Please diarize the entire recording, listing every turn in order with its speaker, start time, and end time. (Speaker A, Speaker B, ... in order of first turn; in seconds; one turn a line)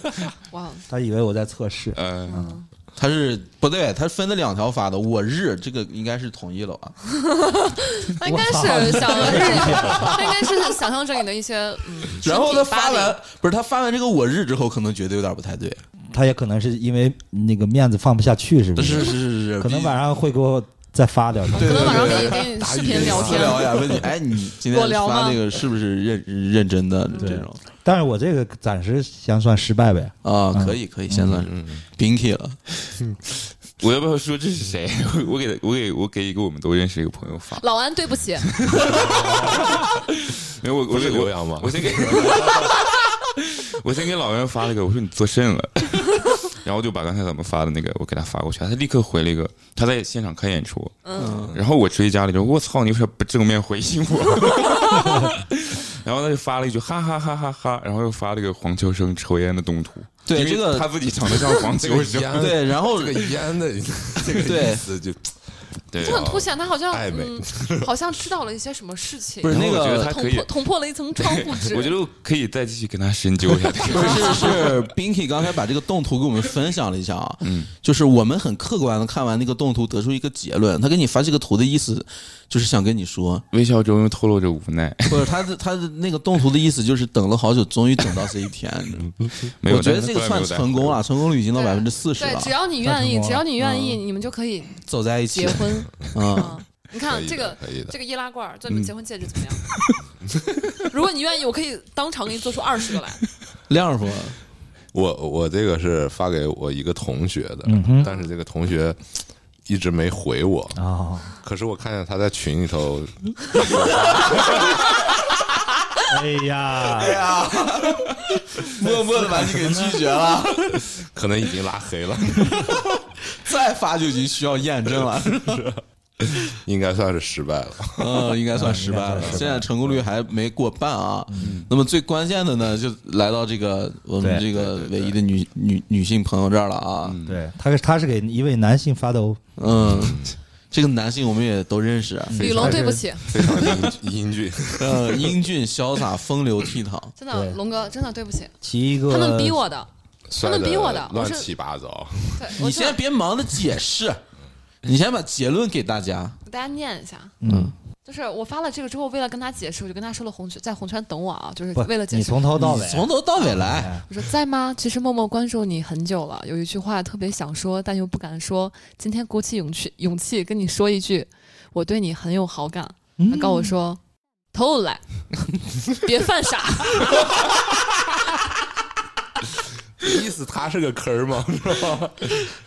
Speaker A: 0.5-0.8
Speaker B: 0.9-2.6
Speaker C: 1.9-2.4
Speaker A: 2.2-2.7
Speaker D: 3.0-7.0
Speaker A: 7.1-13.2
Speaker B: 8.2-10.2
Speaker D: 9.7-10.1
Speaker D: 12.2-15.8
Speaker B: 16.1-22.1
Speaker D: 18.8-20.0
Speaker A: 21.5-23.9
Speaker D: 21.6-27.6
Speaker E: 22.3-23.9
Speaker A: 24.6-25.4
Speaker B: 27.2-30.8
Speaker D: 30.2-32.6
Speaker E: 31.3-31.8
Speaker C: 33.8-37.6
Speaker A: 37.6-38.6
Speaker C: 38.5-62.5
Speaker E: 40.9-42.7
Speaker A: 42.3-42.8
Speaker A: 51.0-51.4
Speaker D: 51.1-51.6
Speaker A: 54.6-55.0
Speaker D: 60.2-60.9
Speaker E: 61.7-67.9
Speaker D: 62.4-63.3
Speaker D: 64.4-64.8
Speaker C: 65.9-66.4
Speaker A: 66.0-72.0
Speaker D: 69.4-70.1
Speaker C: 69.5-70.6
Speaker C: 71.2-74.7
Speaker A: 73.9-74.7
Speaker D: 73.9-83.4
Speaker C: 77.4-77.7
Speaker C: 83.5-85.3
Speaker D: 85.1-92.5
Speaker C: 89.6-91.0
Speaker A: 91.5-99.6
Speaker B: 92.8-93.5
Speaker D: 93.6-93.9
Speaker D: 94.8-96.6
Speaker E: 97.0-97.9
Speaker A: 100.8-103.2
Speaker D: 103.7-104.4
Speaker E: 104.9-109.0
Speaker B: 107.6-108.1
Speaker E: 109.6-110.8
Speaker B: 110.7-111.3
Speaker E: 111.4-114.9
Speaker B: 116.1-117.3
Speaker D: 116.9-120.8
Speaker B: 119.2-120.1
Speaker E: 120.7-123.0
Speaker D: 123.2-125.7
Speaker E: 125.5-128.4
Speaker D: 128.0-137.2
Speaker B: 128.5-129.7
Speaker E: 129.1-129.4
Speaker B: 131.3-131.6
Speaker C: 131.4-131.7
Speaker E: 134.4-135.1
Speaker C: 137.0-137.4
Speaker B: 137.2-139.4
Speaker D: 139.6-142.7
Speaker E: 139.9-140.3
Speaker B: 142.3-143.1
Speaker A: 142.4-143.8
Speaker E: 143.2-145.4
Speaker D: 144.8-147.1
Speaker A: 147.2-148.6
Speaker B: 147.3-147.6
Speaker B: 148.6-149.6
Speaker A: 149.1-149.9
Speaker E: 150.3-152.6
Speaker A: 150.4-151.5
Speaker A: 152.4-153.0
Speaker D: 152.6-154.2
Speaker D: 154.8-156.4
Speaker A: 156.4-157.4
Speaker B: 157.4-157.7
Speaker D: 157.5-157.7
Speaker A: 158.1-162.6
Speaker B: 161.7-164.0
Speaker D: 162.6-163.9
Speaker A: 164.1-174.0
Speaker B: 173.2-173.8
Speaker A: 174.5-177.3
Speaker E: 180.0-182.5